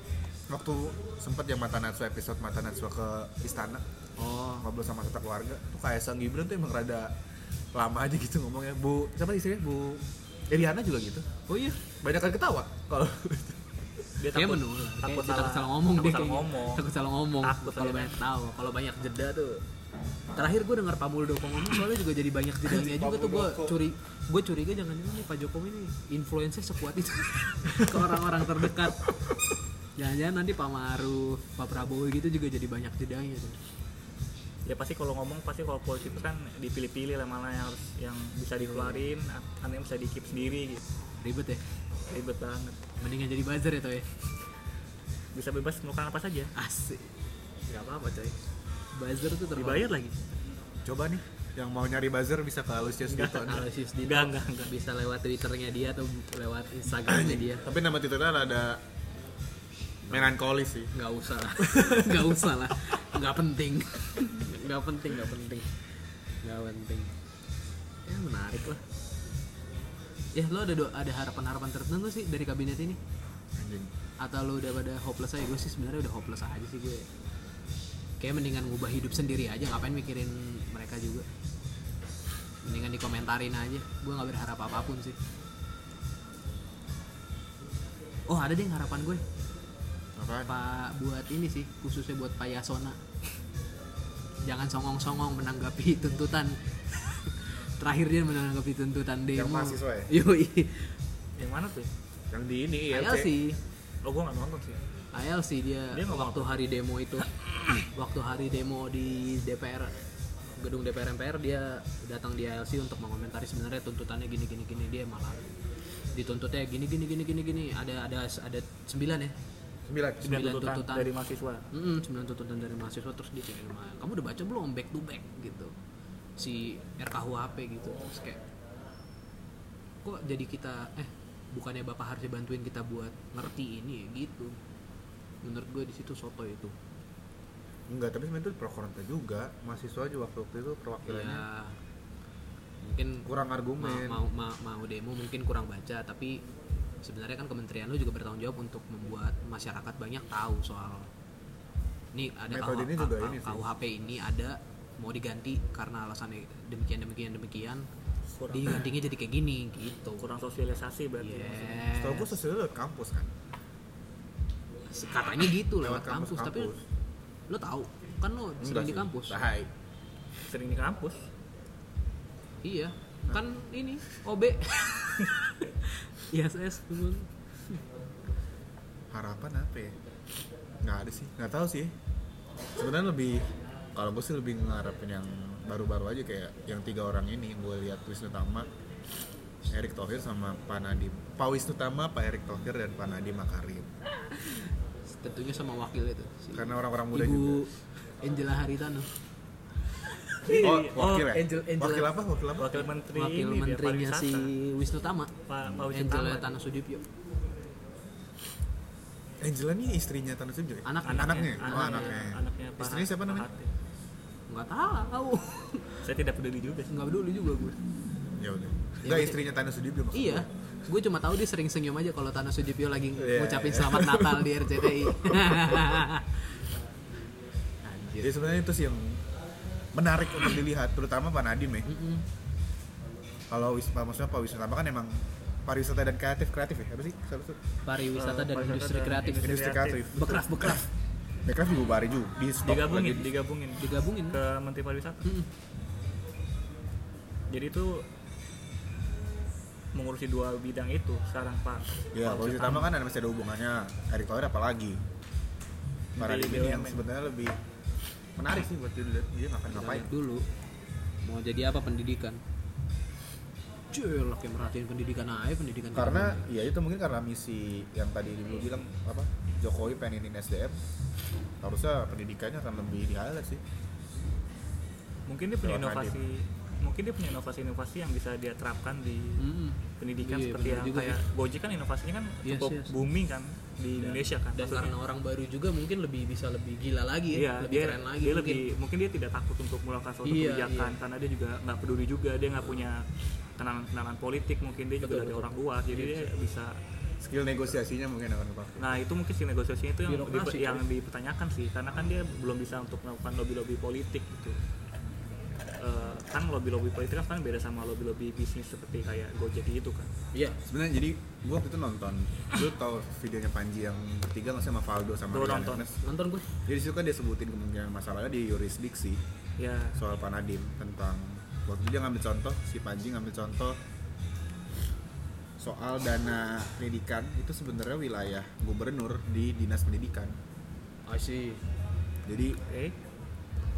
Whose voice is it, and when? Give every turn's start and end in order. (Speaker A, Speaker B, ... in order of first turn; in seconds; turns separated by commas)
Speaker A: 0.5-3.8, Speaker B: 4.2-4.7, Speaker A: 4.6-7.1, Speaker A: 7.7-11.3, Speaker B: 11.5-11.8, Speaker A: 12.0-13.6, Speaker C: 14.2-16.9, Speaker B: 14.3-19.6, Speaker C: 17.4-18.2, Speaker B: 20.4-29.1, Speaker A: 22.7-23.8, Speaker B: 29.9-33.6, Speaker C: 34.7-40.8, Speaker B: 38.6-39.1, Speaker B: 41.2-41.6, Speaker C: 42.1-42.8, Speaker B: 43.0-44.1, Speaker C: 45.3-46.5, Speaker B: 46.5-47.1, Speaker B: 47.7-48.4, Speaker B: 48.9-49.9, Speaker C: 49.5-50.3, Speaker A: 50.9-53.6, Speaker C: 53.1-54.7, Speaker B: 53.5-57.7, Speaker A: 57.0-58.8, Speaker B: 60.0-60.3, Speaker A: 60.1-60.9, Speaker B: 60.9-65.7, Speaker A: 61.6-62.2, Speaker B: 66.4-67.1, Speaker B: 68.0-68.8, Speaker B: 70.3-73.0, Speaker A: 73.5-73.9, Speaker B: 74.2-77.1, Speaker B: 78.2-81.3, Speaker B: 82.6-85.2, Speaker B: 88.3-89.2, Speaker A: 90.2-90.5, Speaker B: 90.5-93.0, Speaker B: 94.4-101.0, Speaker A: 99.3-100.1, Speaker C: 101.4-101.9, Speaker A: 102.3-103.3, Speaker B: 102.9-103.6, Speaker C: 104.0-104.8, Speaker B: 105.1-110.0, Speaker C: 105.9-106.5, Speaker B: 110.6-115.5, Speaker B: 116.1-119.3, Speaker A: 119.9-120.3, Speaker C: 120.2-121.6, Speaker B: 120.2-121.1, Speaker B: 121.7-125.7, Speaker B: 126.4-128.4, Speaker B: 130.0-134.6, Speaker B: 135.4-136.7, Speaker A: 137.9-141.5, Speaker B: 141.1-141.8, Speaker B: 142.8-143.3, Speaker A: 143.2-144.2, Speaker B: 143.8-146.4, Speaker B: 147.0-151.1, Speaker B: 152.1-157.9, Speaker A: 152.5-153.6, Speaker C: 158.4-158.9, Speaker B: 158.5-160.3, Speaker C: 160.2-161.9, Speaker B: 161.2-162.4, Speaker A: 161.9-163.3, Speaker B: 164.9-166.7, Speaker A: 165.7-166.8, Speaker B: 167.5-169.5, Speaker A: 168.6-169.7, Speaker C: 170.4-171.3, Speaker B: 172.6-177.8, Speaker A: 179.1-179.9, Speaker A: 180.8-181.9, Speaker A: 182.8-188.7, Speaker A: 189.7-193.9, Speaker B: 194.2-199.1, Speaker A: 196.5-197.7, Speaker B: 200.3-202.1, Speaker C: 200.4-201.3, Speaker A: 200.6-202.8, Speaker C: 202.6-204.5, Speaker B: 203.0-205.3, Speaker C: 205.5-206.5, Speaker B: 205.9-207.1, Speaker A: 209.4-213.5, Speaker B: 210.8-212.2, Speaker C: 211.1-213.7, Speaker B: 214.5-216.1, Speaker C: 216.0-216.9, Speaker B: 216.9-217.8, Speaker A: 218.3-220.5, Speaker B: 219.0-219.4, Speaker B: 220.1-226.4, Speaker A: 223.2-226.0, Speaker B: 227.8-228.3, Speaker A: 228.2-229.2, Speaker A: 229.9-231.9, Speaker B: 231.9-232.3, Speaker A: 233.5-237.6, Speaker B: 237.9-239.6, Speaker C: 238.1-240.3, Speaker A: 239.4-240.8, Speaker B: 240.1-240.9, Speaker A: 241.4-243.3, Speaker C: 242.6-245.2, Speaker B: 243.8-244.4, Speaker B: 245.2-245.5, Speaker C: 247.5-248.1, Speaker C: 249.9-252.9, Speaker A: 252.1-255.0, Speaker C: 256.2-257.0, Speaker A: 256.2-257.6, Speaker A: 258.4-260.1, Speaker B: 259.7-260.4, Speaker B: 261.2-262.4, Speaker B: 263.9-266.5, Speaker A: 265.9-270.8, Speaker A: 271.6-273.6, Speaker C: 275.3-279.4, Speaker A: 275.6-276.2, Speaker B: 279.4-281.2, Speaker C: 280.0-284.9, Speaker B: 282.4-283.0, Speaker B: 283.9-288.6, Speaker C: 287.3-293.1, Speaker B: 290.2-290.9, Speaker C: 293.6-296.8, Speaker B: 295.0-296.3, Speaker A: 297.2-299.0, Speaker C: 298.8-304.6, Speaker B: 300.1-300.8, Speaker C: 305.8-310.1, Speaker B: 310.3-310.6, Speaker A: 310.7-316.0, Speaker C: 315.3-315.9, Speaker B: 316.0-316.4, Speaker A: 316.6-319.2, Speaker C: 319.6-320.0, Speaker A: 319.9-323.8, Speaker A: 325.6-330.4, Speaker B: 331.1-331.6, Speaker A: 332.3-332.6, Speaker C: 332.7-332.9